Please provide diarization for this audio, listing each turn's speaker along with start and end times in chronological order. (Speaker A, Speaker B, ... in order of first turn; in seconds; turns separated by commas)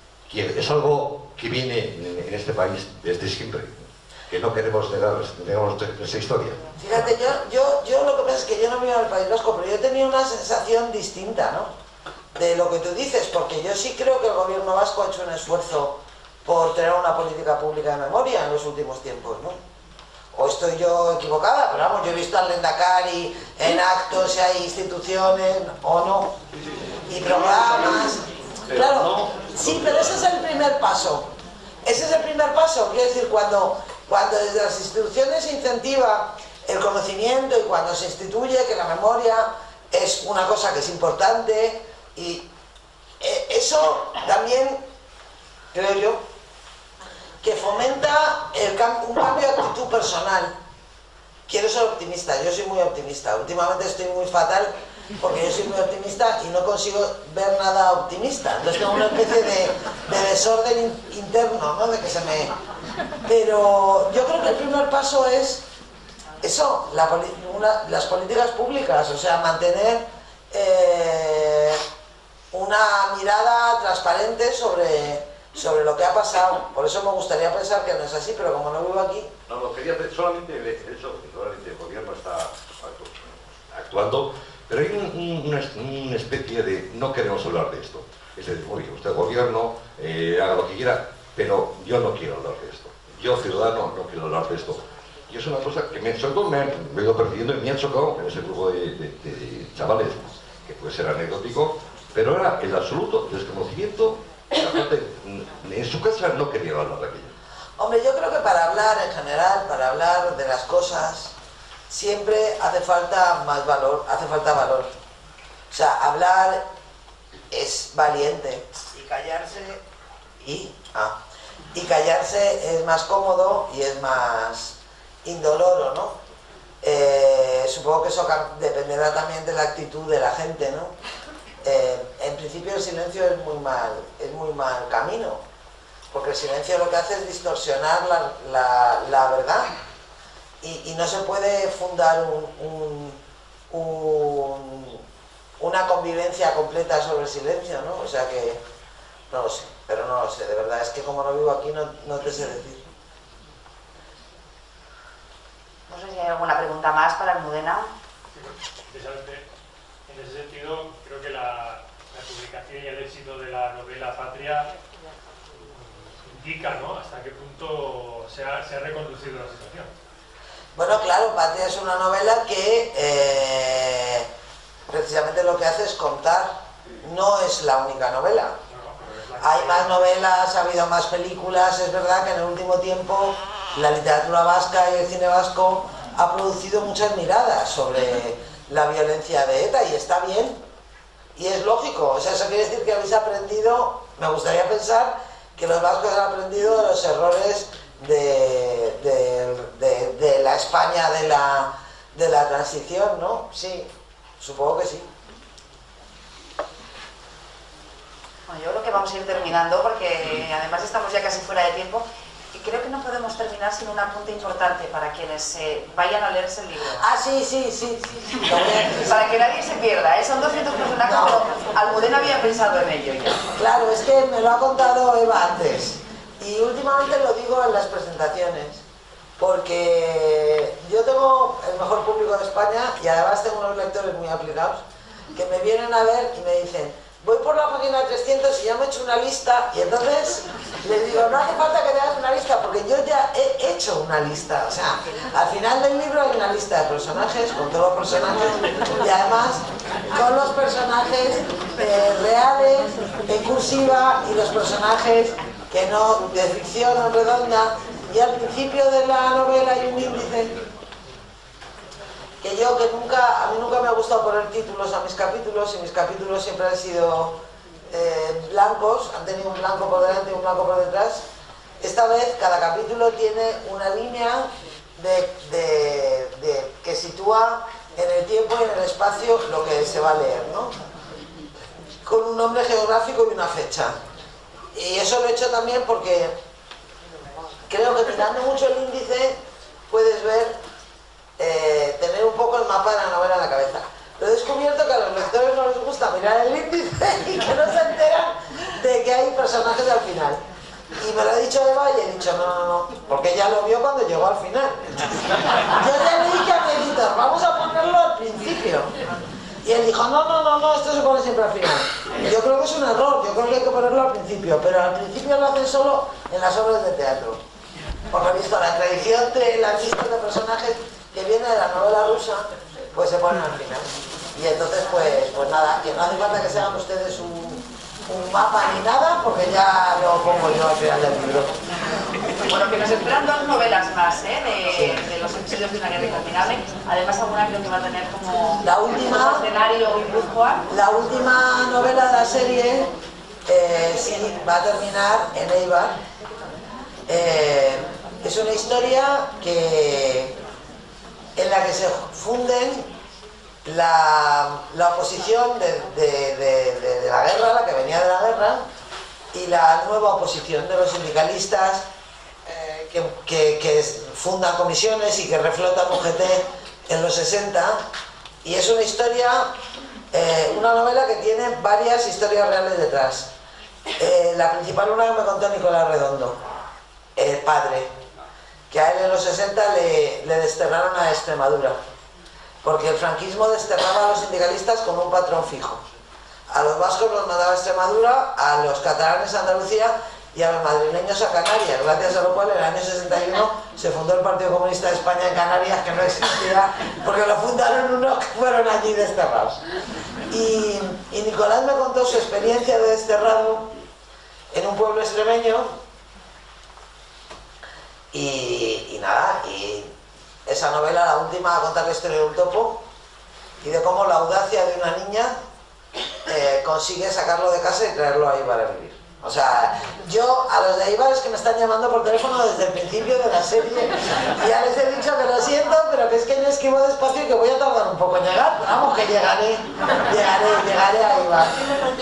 Speaker A: 0.3-6.7, Speaker B: 6.8-11.7, Speaker B: 12.3-19.6, Speaker B: 20.3-26.4, Speaker B: 27.1-31.3, Speaker A: 28.7-30.2, Speaker B: 31.8-42.5, Speaker B: 43.2-44.8, Speaker B: 45.7-46.2, Speaker B: 47.4-50.5, Speaker B: 51.5-62.5, Speaker B: 63.2-65.6, Speaker B: 66.4-71.8, Speaker B: 72.5-79.3, Speaker A: 79.5-107.3, Speaker B: 107.8-111.3, Speaker B: 111.9-114.9, Speaker B: 115.7-116.6, Speaker B: 117.5-119.8, Speaker B: 120.4-121.2, Speaker B: 121.7-126.2, Speaker B: 126.8-130.9, Speaker B: 131.6-135.4, Speaker B: 136.1-139.8, Speaker B: 140.6-143.2, Speaker B: 143.7-145.0, Speaker B: 145.6-148.6, Speaker B: 149.3-152.8, Speaker C: 155.9-157.9, Speaker D: 158.3-159.4, Speaker D: 160.1-164.7, Speaker D: 165.7-169.9, Speaker B: 170.8-174.3, Speaker B: 174.9-178.6, Speaker D: 178.7-180.0, Speaker B: 179.4-190.6, Speaker B: 191.4-205.1, Speaker C: 208.5-217.0, Speaker B: 217.0-219.3, Speaker C: 219.0-223.5, Speaker B: 221.0-221.5, Speaker B: 223.6-228.8, Speaker B: 229.4-234.8, Speaker B: 235.3-260.5, Speaker B: 262.4-267.4, Speaker B: 267.9-271.2, Speaker B: 271.8-280.8, Speaker B: 282.0-284.0, Speaker B: 284.7-286.4, Speaker B: 287.7-289.4, Speaker B: 289.9-290.6, Speaker B: 291.4-300.4, Speaker B: 301.0-308.9, Speaker B: 309.6-317.4, Speaker B: 318.1-331.6, Speaker C: 332.5-340.6, Speaker B: 334.8-335.0, Speaker B: 338.6-339.5, Speaker B: 340.7-342.9, Speaker B: 343.5-346.0, Speaker B: 347.1-350.4, Speaker B: 351.4-352.9, Speaker B: 353.6-358.6, Speaker B: 359.3-361.9, Speaker B: 362.4-367.8, Speaker B: 368.4-369.5, Speaker B: 370.1-373.3, Speaker B: 374.0-376.4, Speaker B: 377.2-377.9, Speaker B: 378.7-381.8, Speaker B: 382.6-385.8, Speaker B: 386.5-399.6, Speaker B: 400.3-403.7, Speaker B: 404.5-405.8, Speaker B: 408.1-409.9, Speaker B: 410.5-412.8, Speaker B: 413.6-415.4, Speaker B: 416.2-431.7